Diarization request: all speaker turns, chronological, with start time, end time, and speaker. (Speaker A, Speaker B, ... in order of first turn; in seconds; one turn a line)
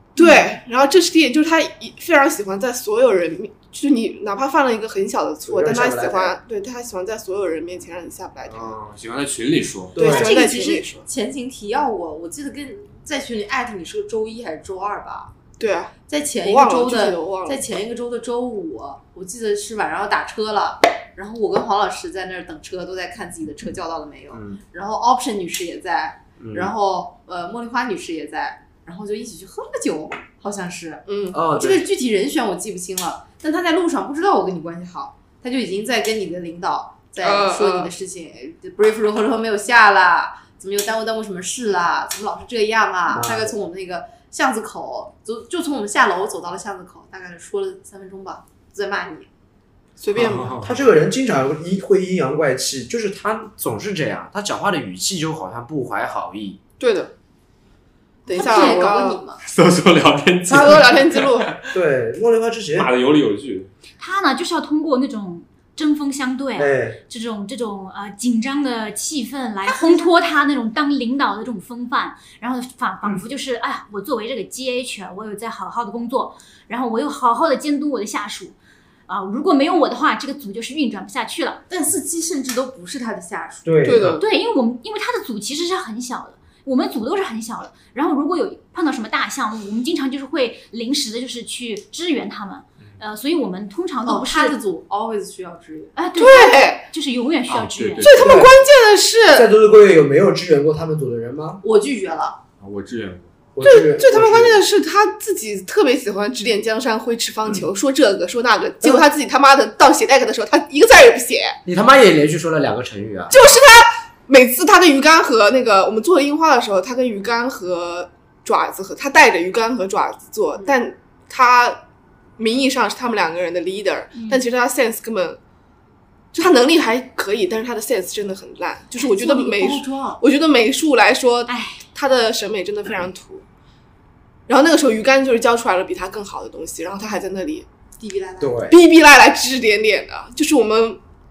Speaker A: 0.2-8.7
Speaker B: 0.2-0.5
Speaker C: 5.5-6.4
Speaker D: 8.5-10.0
Speaker C: 9.9-10.4
Speaker A: 10.0-11.1
Speaker B: 10.0-15.4
Speaker A: 15.6-17.6
Speaker B: 16.1-49.3
Speaker C: 24.3-24.6
Speaker C: 26.4-26.7
Speaker A: 31.1-31.4
Speaker C: 31.3-31.9
Speaker A: 37.2-37.9
Speaker C: 43.1-43.5
Speaker A: 50.0-50.7
Speaker D: 50.2-50.7
Speaker C: 50.5-56.6
Speaker A: 56.8-57.1
Speaker A: 58.3-59.2
Speaker B: 58.3-59.4
Speaker D: 59.4-61.8
Speaker C: 60.5-60.9
Speaker A: 60.5-61.6
Speaker C: 61.7-62.9
Speaker D: 62.7-63.7
Speaker E: 64.0-78.5
Speaker C: 66.5-67.0
Speaker B: 69.7-70.1
Speaker E: 79.1-81.6
Speaker B: 81.7-83.8
Speaker C: 83.6-84.1
Speaker A: 83.8-84.2
Speaker E: 84.1-94.5
Speaker B: 94.0-96.1
Speaker E: 96.0-98.1
Speaker A: 96.2-96.8
Speaker D: 97.5-98.5
Speaker A: 98.0-99.5
Speaker C: 98.2-98.5
Speaker C: 99.3-101.6
Speaker B: 101.6-102.4
Speaker D: 102.6-103.3
Speaker C: 103.5-104.6
Speaker A: 103.6-111.6
Speaker C: 111.6-113.4
Speaker A: 113.3-121.8
Speaker A: 122.4-125.4
Speaker E: 124.1-124.4
Speaker A: 126.3-133.4
Speaker B: 129.0-130.2
Speaker E: 131.5-131.8
Speaker A: 134.5-137.7
Speaker B: 138.0-138.7
Speaker C: 138.4-138.8
Speaker A: 138.7-141.0